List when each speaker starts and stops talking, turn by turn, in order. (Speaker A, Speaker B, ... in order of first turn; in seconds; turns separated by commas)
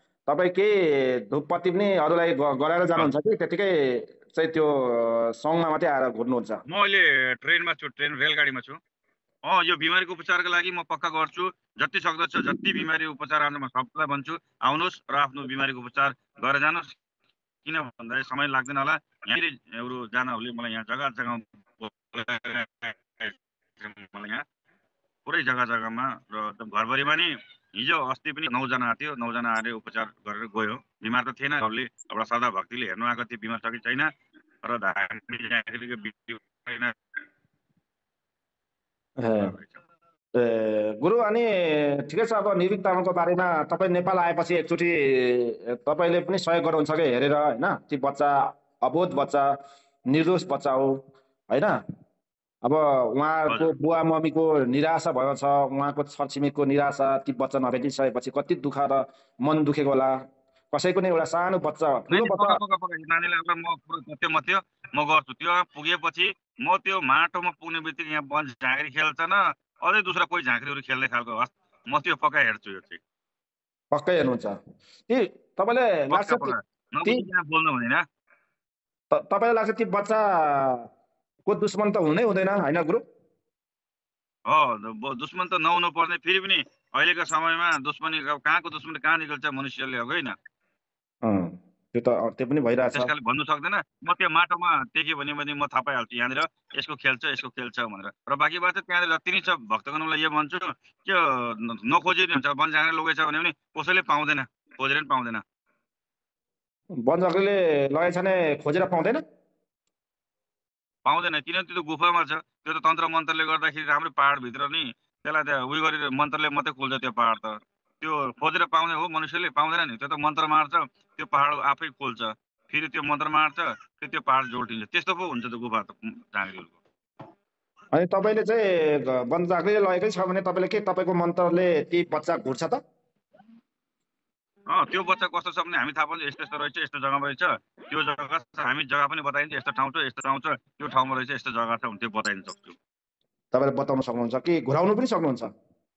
Speaker A: 0.3-6.6, Speaker B: 6.7-8.8, Speaker B: 9.5-16.9, Speaker B: 17.6-24.4, Speaker B: 25.3-34.1, Speaker B: 34.6-36.9, Speaker A: 39.2-39.5, Speaker B: 39.4-39.8, Speaker A: 40.4-49.5, Speaker A: 50.1-51.0, Speaker A: 51.5-51.8, Speaker A: 52.6-60.1, Speaker A: 60.7-62.6, Speaker B: 62.1-73.0, Speaker A: 73.9-74.5, Speaker A: 75.1-76.5, Speaker B: 76.1-78.0, Speaker A: 79.1-80.9, Speaker A: 81.5-83.0, Speaker B: 84.5-90.3, Speaker A: 91.2-93.1, Speaker B: 93.0-105.4, Speaker A: 107.0-109.2, Speaker B: 111.0-126.8, Speaker A: 127.9-132.8, Speaker B: 134.7-142.8, Speaker A: 143.5-145.5